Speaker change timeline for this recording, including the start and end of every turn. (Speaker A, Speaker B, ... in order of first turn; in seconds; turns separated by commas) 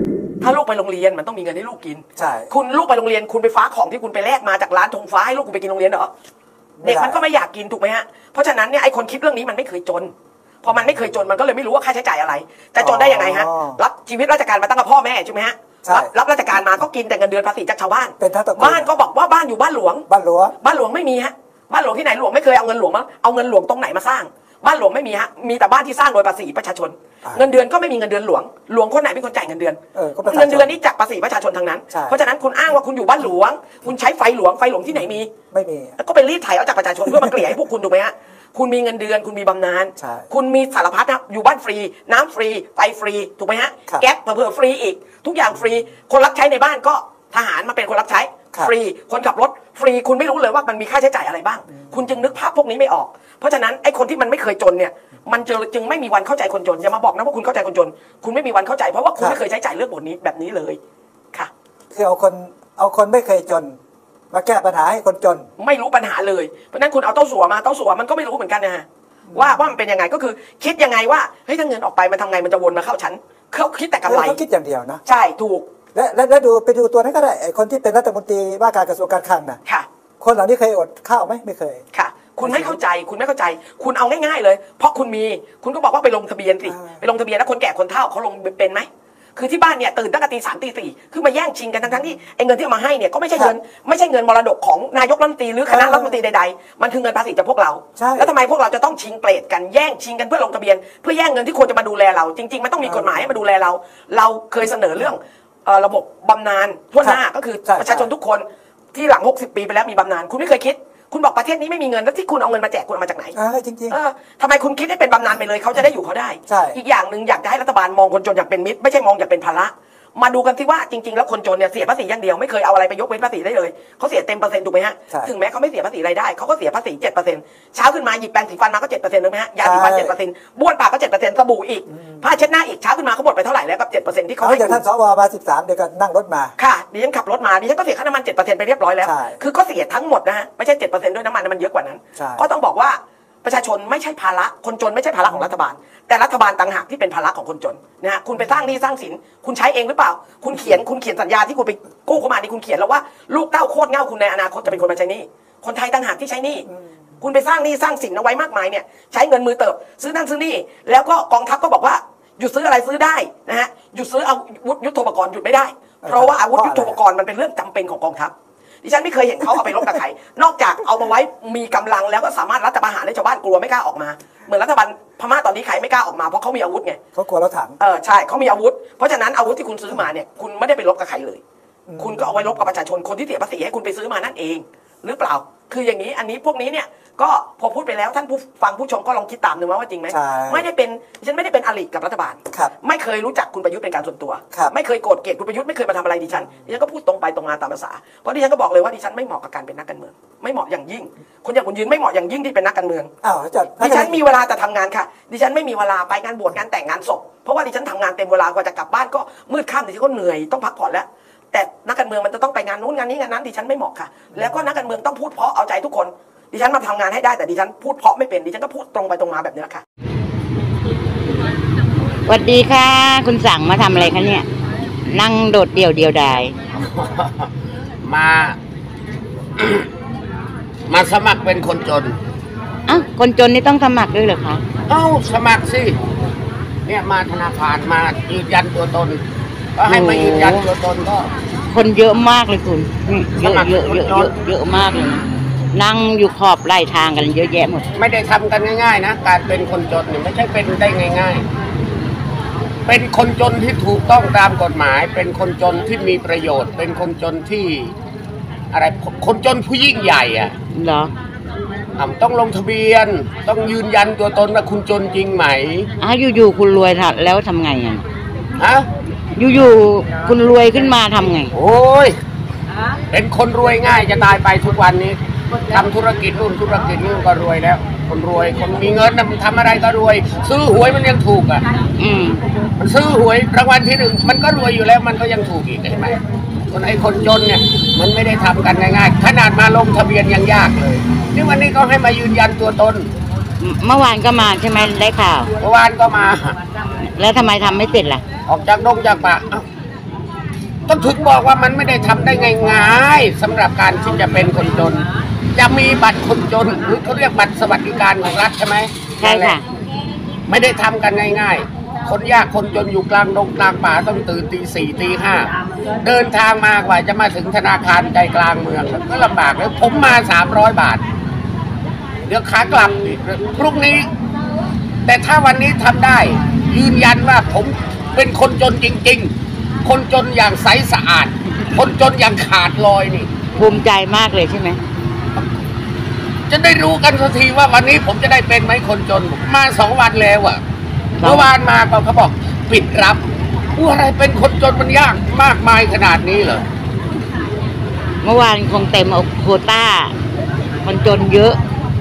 Speaker A: 0.4-6.1, Speaker B: 2.2-2.5, Speaker B: 6.8-7.2, Speaker A: 6.8-20.1, Speaker B: 12.8-13.8, Speaker B: 15.8-16.1, Speaker B: 18.2-18.9, Speaker B: 20.1-20.6, Speaker A: 20.6-35.3, Speaker B: 29.9-30.7, Speaker B: 31.9-32.2, Speaker B: 35.5-36.0, Speaker A: 36.0-60.8, Speaker B: 37.1-37.5, Speaker B: 40.0-40.3, Speaker B: 61.9-63.8, Speaker B: 64.3-65.5, Speaker A: 65.6-74.4, Speaker B: 69.3-69.6, Speaker B: 74.0-75.0, Speaker A: 75.0-75.7, Speaker B: 75.9-79.6, Speaker B: 80.2-81.8, Speaker A: 81.9-113.3, Speaker B: 82.4-82.8, Speaker B: 86.7-87.0, Speaker B: 95.7-96.2, Speaker B: 98.0-98.3, Speaker B: 102.8-103.3, Speaker B: 107.0-108.1, Speaker B: 113.3-114.0, Speaker A: 113.9-134.8, Speaker B: 116.5-116.8, Speaker B: 129.6-130.2, Speaker B: 131.9-132.3, Speaker B: 134.4-136.6, Speaker A: 136.6-156.7, Speaker B: 139.0-139.4, Speaker B: 142.2-142.5, Speaker A: 157.2-177.0, Speaker B: 166.0-167.0, Speaker B: 177.2-177.8, Speaker A: 177.8-181.4, Speaker B: 181.9-182.6, Speaker A: 182.0-203.1, Speaker B: 190.1-190.7, Speaker B: 203.2-204.2, Speaker A: 203.8-219.8, Speaker C: 222.3-224.5, Speaker C: 225.1-226.6, Speaker D: 226.8-228.6, Speaker D: 229.6-229.9, Speaker D: 230.9-232.2, Speaker C: 232.9-234.6, Speaker D: 234.9-236.0, Speaker D: 236.8-239.2, Speaker D: 239.8-241.3, Speaker C: 239.9-240.7, Speaker C: 241.7-247.9, Speaker D: 243.4-244.3, Speaker D: 247.9-251.5, Speaker D: 252.9-257.9, Speaker D: 258.7-260.6, Speaker C: 260.7-261.1, Speaker D: 262.0-265.9, Speaker C: 266.0-268.1, Speaker D: 268.6-268.9, Speaker C: 269.3-271.5, Speaker D: 271.5-272.2, Speaker D: 273.1-275.2, Speaker D: 275.7-281.6, Speaker C: 282.0-282.4, Speaker D: 282.8-286.2, Speaker D: 286.7-293.1, Speaker C: 293.6-295.5, Speaker D: 295.6-296.6, Speaker C: 297.1-298.2, Speaker D: 298.5-299.6, Speaker D: 300.9-309.6, Speaker C: 309.2-309.6, Speaker D: 310.5-315.5, Speaker D: 316.0-321.0, Speaker D: 322.3-324.1, Speaker D: 325.1-329.3, Speaker D: 329.8-333.3, Speaker C: 333.6-334.8, Speaker D: 336.5-340.6, Speaker C: 341.2-341.5, Speaker D: 341.2-343.2, Speaker D: 343.8-346.6, Speaker C: 348.2-350.1, Speaker C: 350.8-351.6